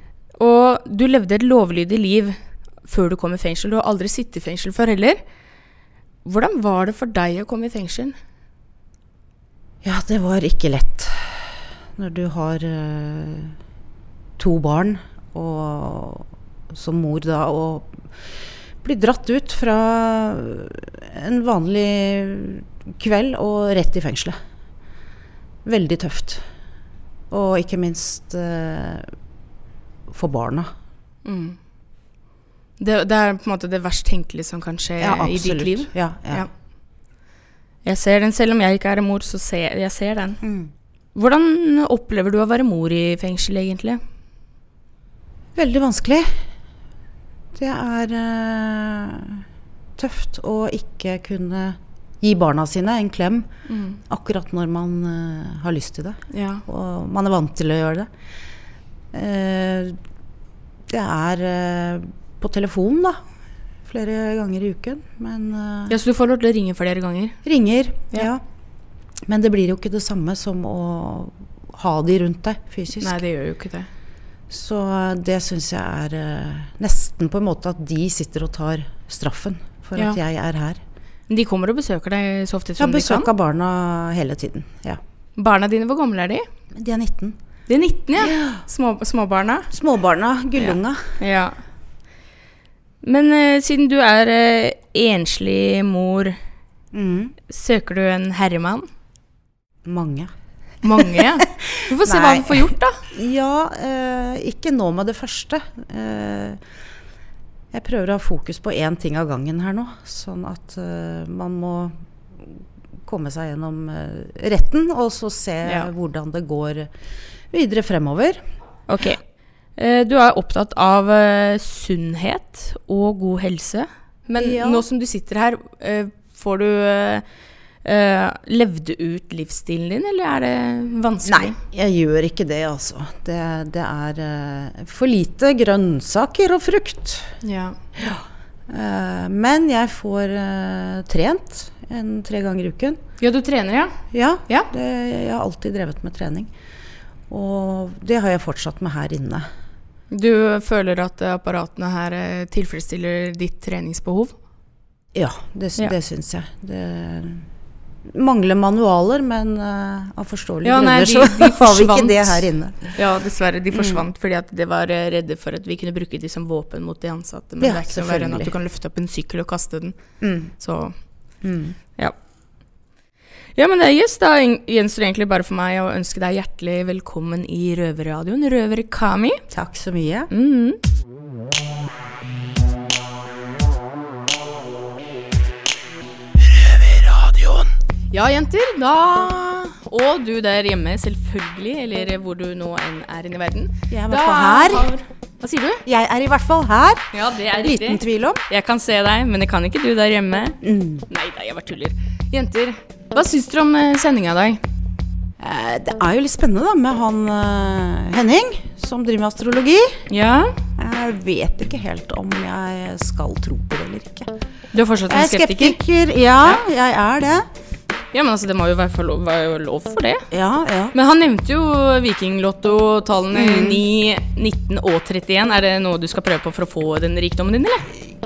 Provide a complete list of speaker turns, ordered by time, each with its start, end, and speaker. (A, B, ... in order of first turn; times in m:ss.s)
0:00.4-0:05.2 A
0:06.2-0:08.2 A
0:09.8-0:13.5 B
0:14.4-0:17.9 B
0:18.8-0:24.4 B
0:25.6-0:26.4 B
0:27.3-0:29.0 B
0:30.1-0:30.7 B
0:31.2-0:31.6 A
0:32.8-0:36.5 A
0:35.0-0:36.5 B
0:37.8-0:40.4 A
0:40.4-0:40.7 B
0:41.1-0:44.0 A
0:45.5-0:46.3 B
0:47.6-0:49.4 B
0:50.0-0:53.5 B
0:53.7-0:54.0 A
0:54.1-0:58.1 B
0:56.3-0:56.6 A
0:59.1-1:00.0 B
1:00.9-1:03.2 B
1:03.8-1:06.0 B
1:05.9-1:07.4 A
1:07.4-1:08.4 B
1:09.3-1:13.2 B
1:13.0-1:13.9 A
1:14.5-1:20.8 B
1:21.3-1:23.3 A
1:22.8-1:25.0 B
1:25.4-1:26.4 A
1:26.7-1:27.4 B
1:27.7-1:29.7 A
1:28.2-1:28.6 B
1:29.7-1:31.2 B
1:30.6-1:31.5 A
1:33.0-1:36.4 A
1:36.9-1:37.3 B
1:37.5-1:38.9 A
1:39.8-1:40.3 B
1:40.8-1:43.0 A
1:40.9-1:46.6 B
1:47.7-1:56.9 B
1:55.6-1:55.9 A
1:57.5-1:58.4 B
1:58.9-1:59.2 A
1:59.8-2:07.2 A
2:04.4-2:04.8 B
2:07.8-2:11.6 A
2:11.2-2:17.3 B
2:17.4-2:17.8 A
2:18.0-2:23.0 B
2:23.2-2:23.9 A
2:24.1-2:26.5 B
2:27.3-2:29.5 B
2:30.1-2:34.3 A
2:35.1-2:37.4 B
2:38.1-2:43.0 B
2:40.6-2:49.9 A
2:43.7-2:44.0 B
2:47.6-2:48.5 B
2:50.2-2:50.5 B
2:50.6-2:50.9 A
2:51.4-2:51.8 B
2:53.5-2:59.4 A
2:59.5-3:00.3 B
3:00.3-3:00.8 A
3:08.1-3:15.8 A
3:13.9-3:14.9 B
3:15.8-3:17.1 B
3:17.1-3:20.6 A
3:17.6-3:18.4 B
3:20.6-3:21.0 B
3:21.1-3:24.6 A
3:25.4-3:30.0 B
3:30.1-3:30.5 A
3:30.8-3:34.3 B
3:34.7-3:35.8 A
3:35.1-3:37.5 B
3:38.1-3:40.2 A
3:40.3-3:40.9 B
3:40.9-3:47.8 A
3:43.3-3:43.8 B